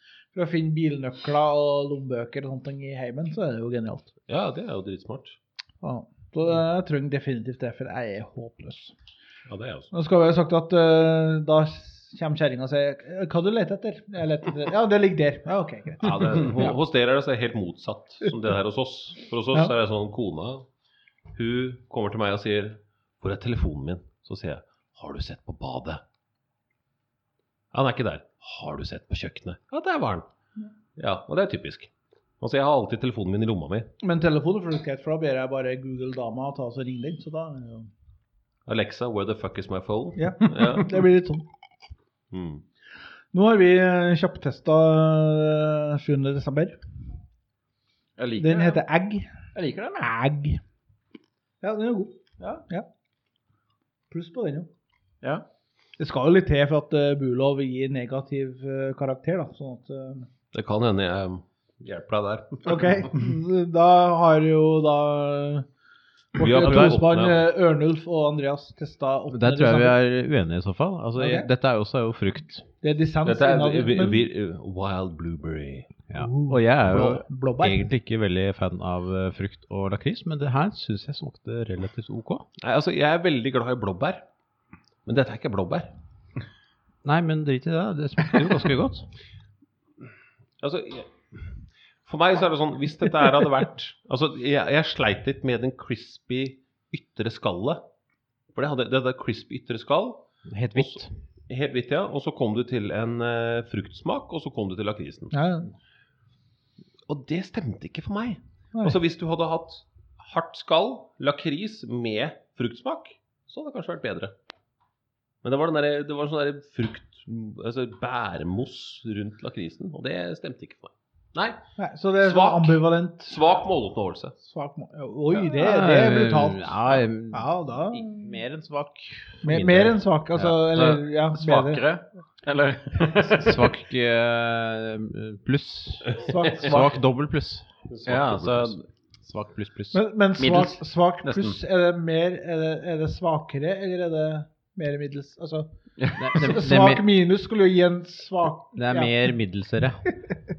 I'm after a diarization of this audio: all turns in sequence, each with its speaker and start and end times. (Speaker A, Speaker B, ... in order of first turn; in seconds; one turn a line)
Speaker A: 0.3-4.1
Speaker B: 4.3-5.4
Speaker A: 5.8-8.9
Speaker B: 9.5-9.9
Speaker A: 9.9-16.7
Speaker B: 16.0-20.6
Speaker B: 21.3-26.0
Speaker B: 27.7-30.3
Speaker B: 30.9-33.9
Speaker A: 34.0-37.9
Speaker B: 38.6-41.0
Speaker A: 40.1-41.4
Speaker B: 42.3-42.6
Speaker A: 43.3-46.8
Speaker C: 48.2-48.8
Speaker A: 48.4-49.3
Speaker C: 49.5-50.1
Speaker A: 50.0-50.6
Speaker A: 51.6-52.9
Speaker A: 54.1-54.7
Speaker A: 56.0-60.3
Speaker B: 60.5-63.1
Speaker A: 62.6-65.7
Speaker B: 66.3-67.5
Speaker A: 66.3-70.0
Speaker D: 69.3-72.7
Speaker A: 71.2-71.5
Speaker A: 72.8-74.3
Speaker B: 73.2-76.0
Speaker D: 76.1-82.5
Speaker A: 76.1-77.9
Speaker B: 82.6-84.2
Speaker B: 85.0-85.9
Speaker D: 87.0-89.1
Speaker B: 90.6-97.8
Speaker B: 98.5-105.3
Speaker D: 100.5-101.1
Speaker A: 105.3-105.7
Speaker B: 107.1-114.3
Speaker B: 115.4-121.6
Speaker A: 121.8-123.4
Speaker B: 122.2-124.3
Speaker A: 124.4-128.3
Speaker D: 125.3-130.0
Speaker A: 129.4-131.8
Speaker C: 130.4-133.7
Speaker D: 133.2-137.7
Speaker B: 136.1-136.8
Speaker A: 136.2-136.9
Speaker B: 137.9-138.8
Speaker C: 138.0-138.8
Speaker D: 139.2-140.0
Speaker A: 139.9-145.7
Speaker C: 140.4-141.6
Speaker C: 146.0-146.4
Speaker D: 146.2-147.0
Speaker A: 146.2-149.3
Speaker D: 148.7-150.1